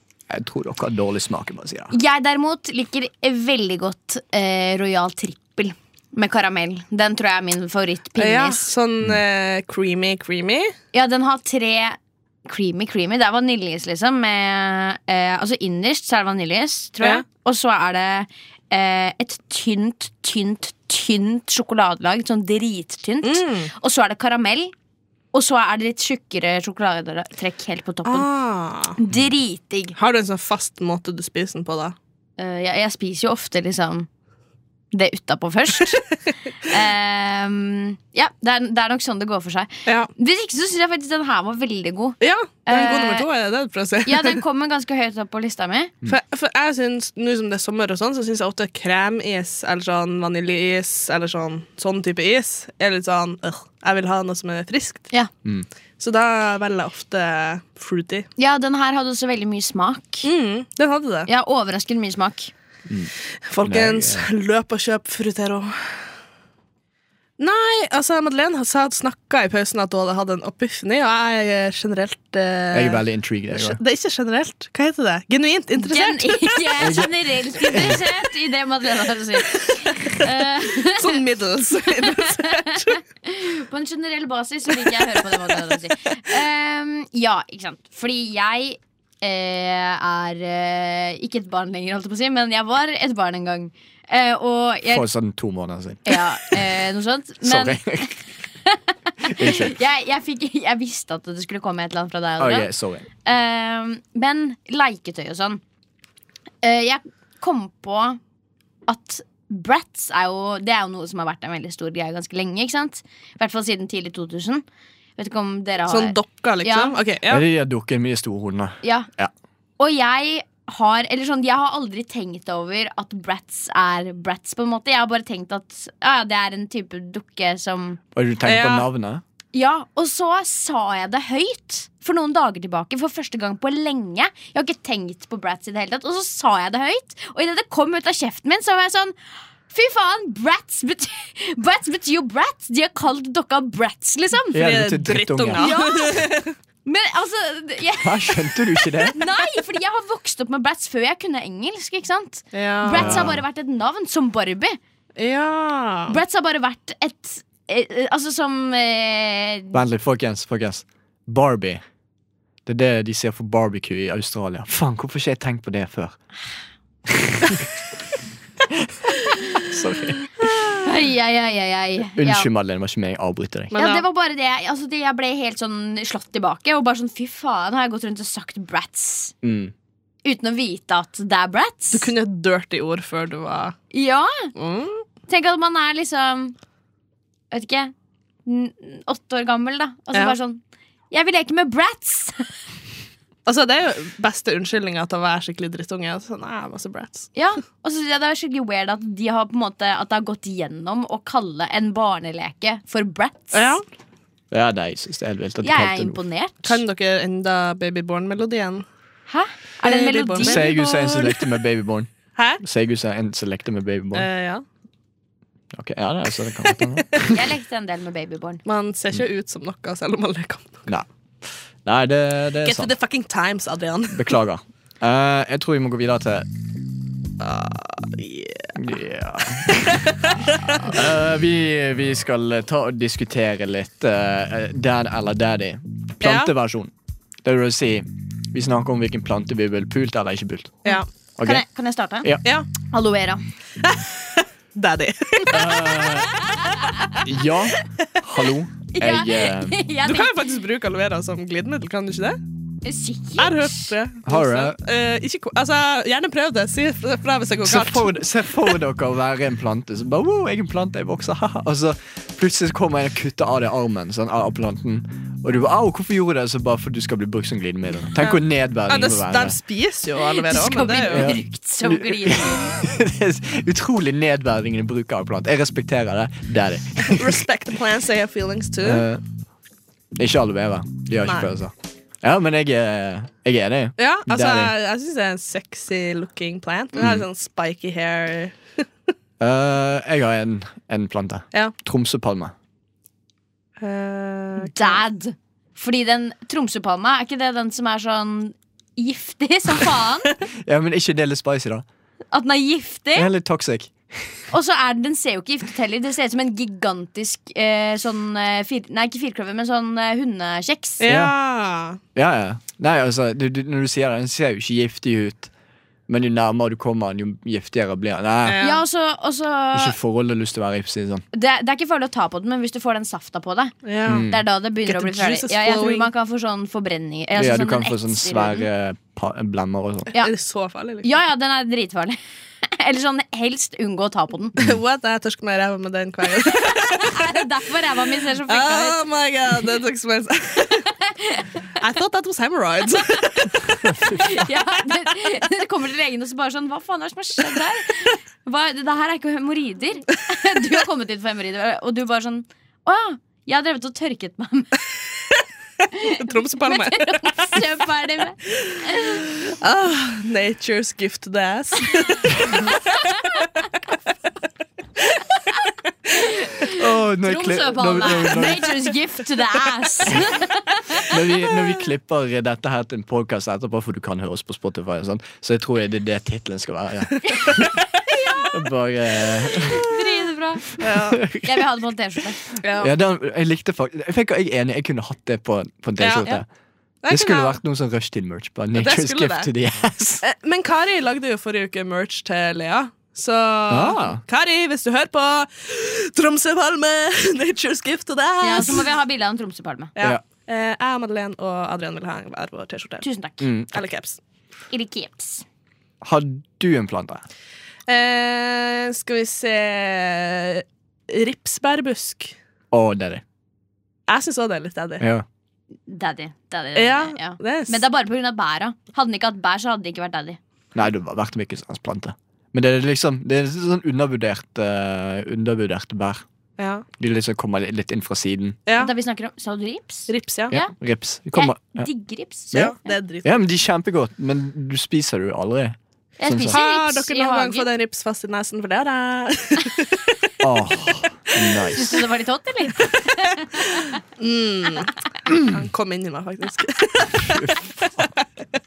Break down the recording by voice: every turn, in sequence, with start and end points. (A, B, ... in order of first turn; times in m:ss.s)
0:00.3-0:01.9 A
0:01.9-0:08.7 B
0:08.2-0:10.7 C
0:10.9-0:24.7 B
0:23.2-0:23.7 C
0:25.3-0:28.3 B
0:28.1-0:29.0 C
0:29.0-0:30.0 B
0:30.0-0:32.0 C
0:32.4-0:34.1 B
0:34.9-0:36.1 B
0:36.6-0:43.3 B
0:42.2-0:44.4 C
0:44.1-0:45.9 B
0:46.1-0:55.1 C
0:56.0-0:58.3 C
0:58.4-1:00.3 B
1:00.2-1:01.3 C
1:01.3-1:02.5 B
1:03.5-1:06.0 C
1:03.6-1:04.3 A
1:07.4-1:16.9 C
1:12.7-1:13.8 A
1:15.8-1:21.2 B
1:16.8-1:18.0 A
1:19.6-1:23.0 C
1:21.9-1:35.0 B
1:24.9-1:25.6 C
1:34.9-1:36.6 A
1:36.1-1:37.8 B
1:37.4-1:38.2 A
1:38.7-1:42.7 B
1:39.2-1:39.8 A
1:42.4-1:43.1 A
1:43.2-1:45.6 B
1:46.6-1:48.2 B
1:48.9-1:54.6 B
1:55.2-1:57.0 B
1:55.9-1:57.4 C
1:57.3-1:59.3 A
1:58.8-1:59.1 B
1:59.8-2:08.0 B
2:08.2-2:09.2 A
2:08.4-2:08.9 C
2:09.5-2:19.2 B
2:19.7-2:24.6 B
2:24.5-2:26.6 C
2:24.5-2:25.7 A
2:25.6-2:26.3 B
2:26.8-2:34.8 B
2:28.0-2:29.2 A
2:32.5-2:33.4 C
2:32.9-2:33.4 A
2:35.2-2:36.2 C
2:36.1-2:39.8 B
2:39.7-2:41.8 A
2:42.7-2:46.2 A
2:47.1-2:47.7 A
2:49.7-2:50.3 A
2:50.8-2:52.5 B
2:52.2-2:53.7 A
2:53.7-2:54.0 C
2:53.8-2:59.4 B
2:59.4-2:59.7 A
3:00.2-3:02.1 B
3:01.9-3:03.8 C
3:03.9-3:04.5 B
3:04.6-3:05.0 C
3:05.3-3:06.6 B
3:07.5-3:07.9 B
3:08.5-3:12.5 B
3:13.5-3:17.3 C
3:17.4-3:23.8 B
3:23.5-3:23.8 C
3:24.5-3:26.2 A
3:25.6-3:26.8 B
3:26.6-3:28.9 C
3:29.3-3:31.2 B
3:29.8-3:31.4 C
3:30.4-3:32.1 A
3:32.4-3:32.6 C
3:32.6-3:34.3 A
3:34.1-3:34.6 C
3:35.7-3:37.4 A
3:37.2-3:38.6 B
3:38.7-3:40.8 C
3:41.8-3:42.9 A
3:42.6-3:44.4 C
3:44.1-3:46.5 A
3:47.4-3:48.7 C
3:48.8-3:50.2 A
3:49.6-3:50.9 C
3:50.8-3:56.9 A
3:56.2-3:56.5 C
3:57.4-4:00.8 A
4:00.9-4:02.3 B
4:01.4-4:01.6 A
4:02.9-4:03.4 B
4:03.8-4:05.8 C
4:05.5-4:06.6 A
4:06.1-4:07.2 B
4:07.2-4:09.8 A
4:09.0-4:10.4 B
4:10.0-4:12.4 C
4:12.8-4:13.9 B
4:13.4-4:18.1 C
4:14.3-4:14.8 A
4:17.6-4:29.6 A
4:28.2-4:31.4 C
4:30.4-4:32.8 B
4:31.1-4:37.4 A
4:37.0-4:39.0 C
4:38.8-4:39.2 A
4:40.2-4:44.7 A
4:44.0-4:48.7 C
4:47.0-4:47.2 A
4:49.4-4:52.5 A
4:53.8-4:55.0 C
4:54.6-5:00.4 B
5:00.6-5:01.8 A
5:02.3-5:03.3 B
5:03.2-5:04.4 A
5:04.5-5:11.0 B
5:11.0-5:12.0 C
5:11.1-5:11.3 A
5:12.2-5:15.5 A
5:16.1-5:18.6 A
5:18.4-5:18.8 C
5:18.6-5:20.0 B
5:19.7-5:21.2 A
5:21.3-5:28.7 B
5:23.8-5:24.3 C
5:24.0-5:24.4 A
5:24.8-5:26.1 C
5:27.4-5:30.1 A
5:30.2-5:31.1 C
5:31.0-5:34.6 B
5:34.6-5:37.2 C
5:36.5-5:39.0 B
5:38.5-5:40.9 C
5:41.0-5:41.5 B
5:41.8-5:43.6 C
5:43.8-5:44.3 A
5:44.0-5:54.8 B
5:55.9-5:59.3 B
5:56.2-5:57.3 C
5:59.3-6:02.7 C
6:02.9-6:03.3 B
6:06.1-6:11.2 B
6:06.8-6:08.8 A
6:11.0-6:17.8 A
6:18.1-6:18.6 B
6:18.5-6:20.0 A
6:19.6-6:20.8 B
6:20.8-6:21.2 C
6:20.8-6:21.7 A
6:21.4-6:22.5 B
6:22.6-6:22.9 C
6:22.8-6:26.5 A
6:26.0-6:26.3 C
6:27.0-6:27.6 C
6:27.1-6:30.2 A
6:28.8-6:29.5 C
6:30.2-6:38.9 C
6:33.7-6:34.2 A
6:38.4-6:39.9 B
6:40.0-6:43.0 C
6:43.0-6:43.5 B
6:43.4-6:43.8 A
6:43.7-6:44.2 C
6:44.7-6:45.4 B
6:46.0-6:47.2 A
6:47.9-6:52.3 C
6:52.7-6:53.2 A
6:54.1-6:55.0 C
6:55.0-6:55.3 A
6:55.9-7:00.4 B
6:56.8-6:57.8 C
7:00.8-7:06.2 A
7:06.6-7:06.9 C
7:07.0-7:08.6 A
7:08.7-7:08.9 C
7:08.8-7:10.7 B
7:10.1-7:10.5 C
7:10.5-7:11.9 A
7:11.4-7:12.9 B
7:12.5-7:16.6 A
7:12.5-7:13.3 C
7:16.2-7:17.7 B
7:16.5-7:20.0 C
7:20.4-7:21.9 A
7:21.7-7:24.0 B
7:24.2-7:27.6 C
7:25.3-7:25.6 A